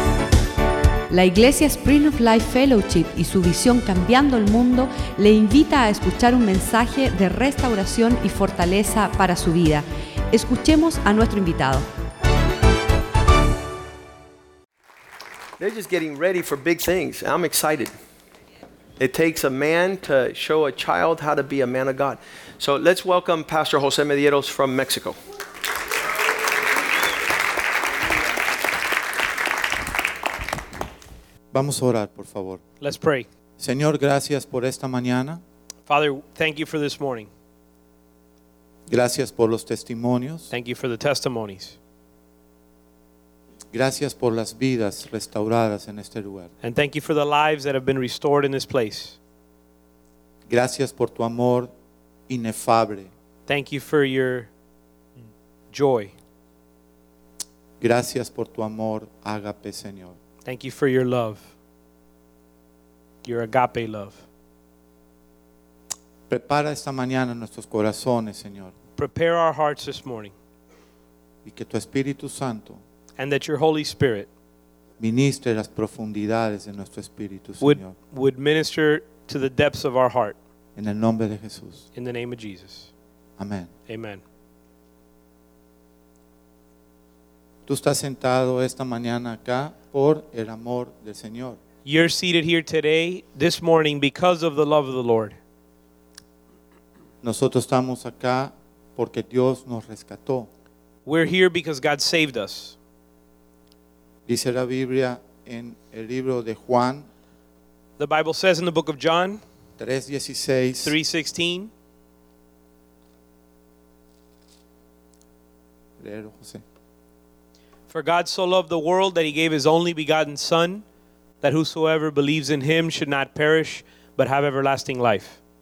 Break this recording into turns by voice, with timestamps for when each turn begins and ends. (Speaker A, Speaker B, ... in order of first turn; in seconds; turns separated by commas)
Speaker A: 1.1-11.8, Speaker B: 15.6-17.9, Speaker B: 19.0-25.2, Speaker C: 31.5-32.6, Speaker D: 32.8-33.3, Speaker C: 33.6-35.4, Speaker D: 35.9-37.3, Speaker C: 38.9-40.5, Speaker D: 40.5-41.8, Speaker C: 43.7-46.5, Speaker D: 46.6-49.2, Speaker C: 50.5-51.7, Speaker C: 52.3-53.1, Speaker D: 53.5-54.5, Speaker D: 55.7-56.1, Speaker C: 57.8-60.2, Speaker D: 60.4-61.4, Speaker D: 63.2-64.2, Speaker C: 66.3-68.7, Speaker D: 69.0-70.3, Speaker C: 71.4-72.8, Speaker D: 73.2-74.3, Speaker C: 75.0-77.9, Speaker D: 77.6-80.4, Speaker C: 80.8-81.8, Speaker D: 81.9-82.9, Speaker C: 83.4-83.7, Speaker D: 83.9-84.2, Speaker C: 87.7-91.6, Speaker D: 91.8-95.4, Speaker C: 97.2-100.5, Speaker D: 101.0-102.8, Speaker C: 104.3-107.1, Speaker D: 108.0-109.4, Speaker C: 109.8-111.0, Speaker D: 110.8-111.7, Speaker C: 116.0-116.6, Speaker D: 117.9-120.8, Speaker D: 121.4-125.4